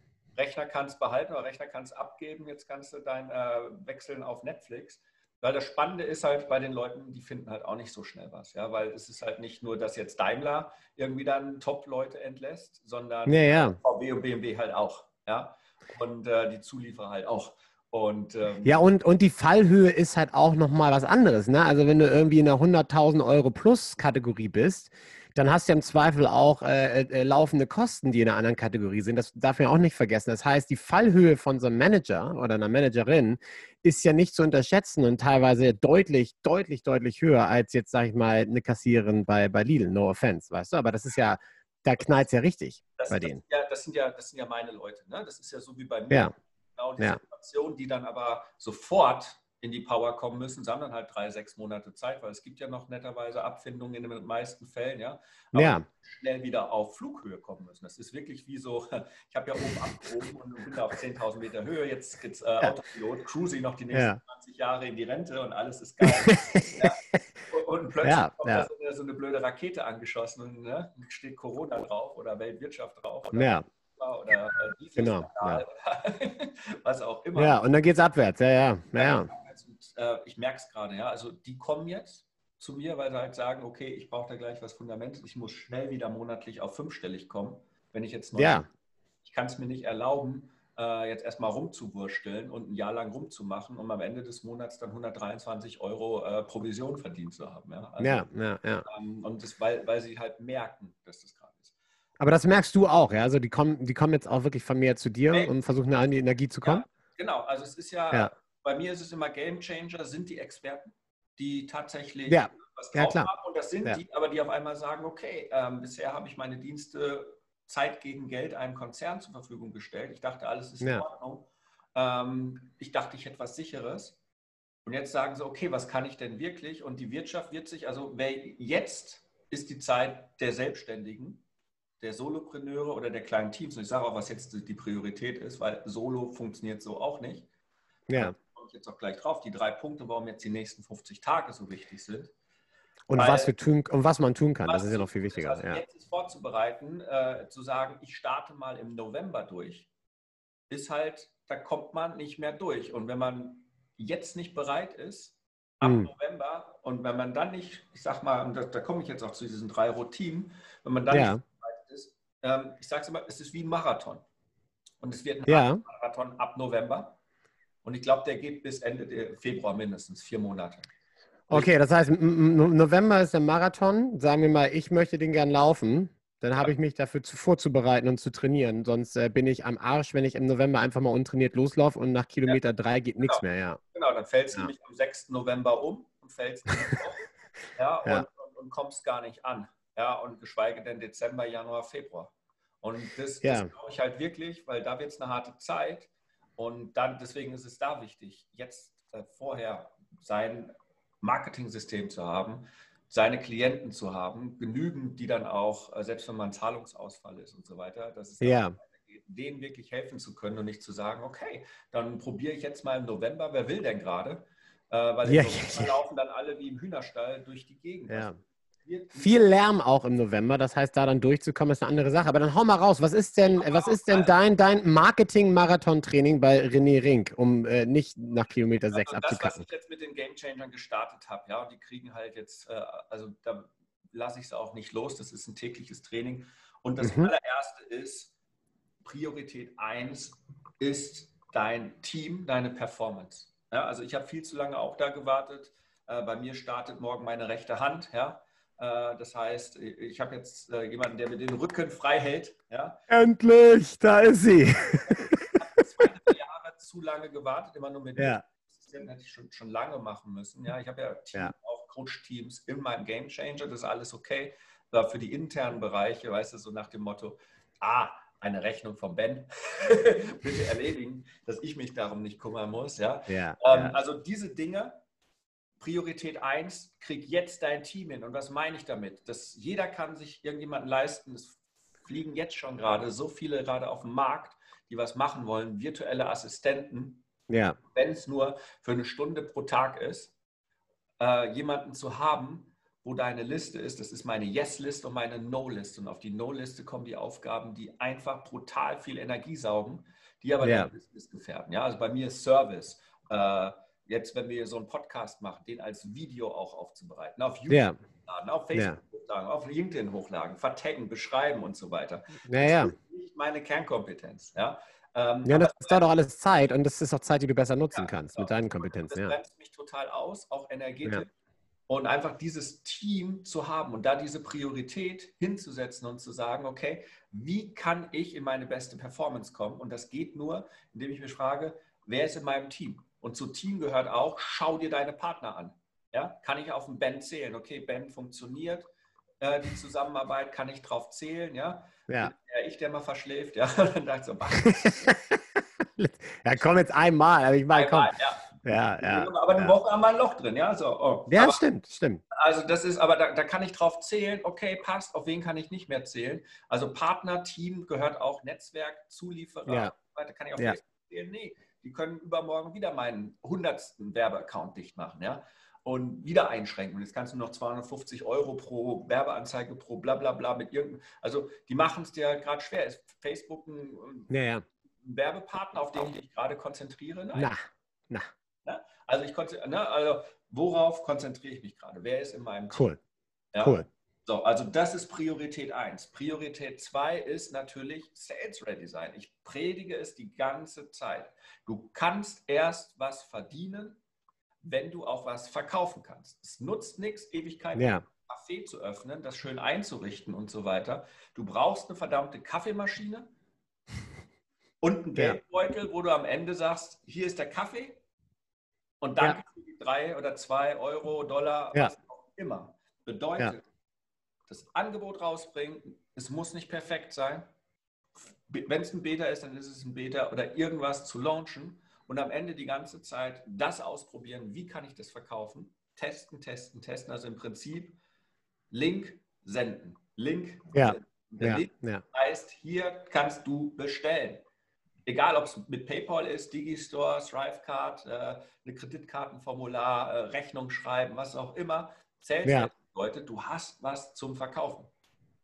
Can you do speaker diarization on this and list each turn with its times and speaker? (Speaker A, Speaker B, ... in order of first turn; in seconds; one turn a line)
Speaker A: 0.3-18.8
Speaker B: 13.3-13.8
Speaker B: 18.6-43.4
Speaker A: 43.0-77.6
Speaker B: 55.5-55.8
Speaker B: 63.9-64.2
Speaker B: 66.0-66.8
Speaker B: 68.0-68.7
Speaker B: 73.3-73.7
Speaker B: 75.0-75.6
Speaker B: 77.3-79.3
Speaker A: 78.9-88.6
Speaker B: 88.3-88.7
Speaker A: 89.2-98.3
Speaker B: 98.0-98.8
Speaker A: 98.8-101.7
Speaker B: 102.2-106.8
Speaker A: 106.6-124.2
Speaker B: 112.2-113.3
Speaker A: 124.8-131.4
Speaker A: 132.0-137.5
Speaker B: 138.1-138.3
Speaker A: 138.1-142.3
Speaker B: 143.1-145.8
Speaker A: 143.1-143.5
Speaker A: 144.7-149.9
Speaker A: 150.7-164.2
Speaker B: 155.8-156.1
Speaker B: 161.1-161.4
Speaker A: 165.0-167.2
Speaker B: 165.4-165.8
Speaker A: 167.8-170.9
Speaker B: 171.5-183.8
Speaker A: 183.2-218.3
Speaker B: 193.4-193.7
Speaker B: 208.4-208.8
Speaker B: 215.2-215.9
Speaker B: 218.1-218.4
Speaker A: 218.8-219.4
Speaker B: 219.1-229.6
Speaker A: 223.4-224.3
Speaker A: 228.9-238.3
Speaker B: 237.0-237.3
Speaker A: 239.0-253.0
Speaker B: 253.1-255.6
Speaker A: 255.0-275.0
Speaker B: 258.2-258.4
Speaker B: 273.3-274.0
Speaker A: 275.8-287.2
Speaker B: 287.5-287.8
Speaker A: 287.9-290.3
Speaker A: 291.2-316.1
Speaker B: 300.6-300.9
Speaker B: 307.7-307.9
Speaker B: 308.7-309.0
Speaker B: 312.5-312.9
Speaker B: 315.4-319.4
Speaker A: 317.9-321.3
Speaker A: 321.9-338.9
Speaker A: 339.4-345.1
Speaker B: 344.8-345.4
Speaker B: 346.0-348.1
Speaker A: 347.7-351.6
Speaker B: 348.6-349.7
Speaker B: 351.3-352.2
Speaker A: 352.3-374.3
Speaker B: 359.7-359.9
Speaker B: 374.3-374.6
Speaker A: 375.0-377.5
Speaker A: 378.6-382.9
Speaker B: 382.7-383.0
Speaker A: 383.5-394.0
Speaker B: 383.6-383.9
Speaker A: 394.6-403.3
Speaker B: 397.7-398.0
Speaker A: 404.8-408.0
Speaker A: 409.0-413.6
Speaker A: 414.5-417.5
Speaker A: 418.3-428.0
Speaker A: 428.7-434.4
Speaker B: 430.7-432.0
Speaker A: 435.1-444.9
Speaker B: 442.4-442.7